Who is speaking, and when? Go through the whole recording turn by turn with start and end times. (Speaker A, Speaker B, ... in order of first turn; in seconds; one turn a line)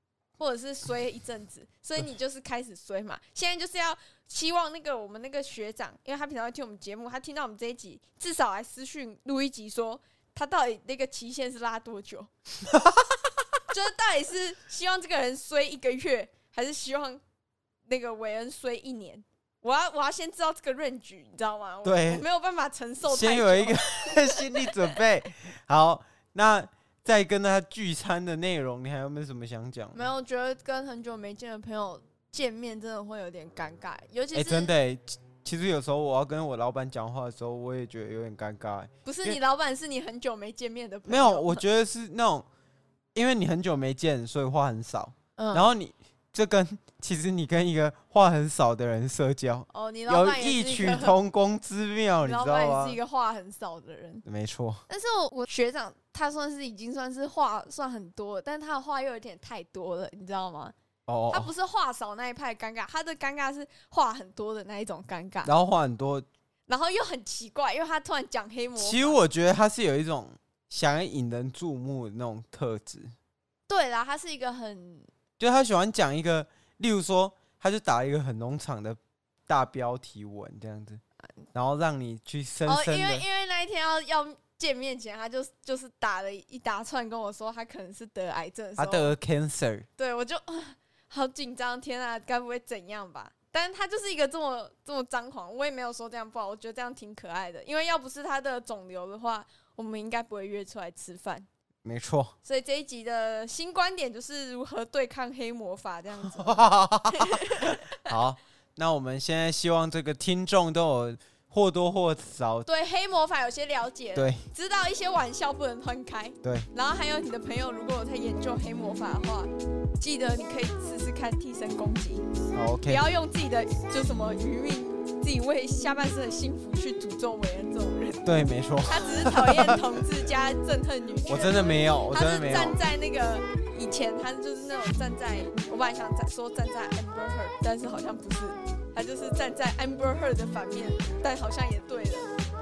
Speaker A: 0.4-12.3
Speaker B: 12.7-13.0
Speaker A: 13.7-17.2
Speaker A: 17.9-24.9
Speaker B: 21.8-22.2
Speaker B: 23.1-30.1
Speaker A: 29.9-34.7
Speaker B: 34.3-39.4
Speaker A: 39.0-41.6
Speaker B: 41.1-42.5
Speaker B: 43.1-53.0
Speaker A: 45.4-45.7
Speaker A: 49.7-51.2
Speaker A: 52.2-54.2
Speaker B: 54.3-54.8
Speaker A: 54.9-60.8
Speaker B: 61.1-61.5
Speaker A: 61.3-65.5
Speaker B: 65.5-66.3
Speaker A: 66.7-69.2
Speaker B: 68.8-73.1
Speaker A: 73.7-75.1
Speaker B: 75.4-81.0
Speaker B: 81.5-83.2
Speaker A: 82.7-89.1
Speaker B: 88.8-89.9
Speaker A: 90.0-101.5
Speaker B: 101.8-102.3
Speaker A: 102.4-108.1
Speaker B: 106.3-112.7
Speaker A: 112.7-122.3
Speaker B: 114.2-114.4
Speaker B: 116.4-116.7
Speaker B: 122.5-123.0
Speaker A: 122.9-128.3
Speaker B: 128.2-129.8
Speaker A: 128.9-142.3
Speaker B: 131.3-132.8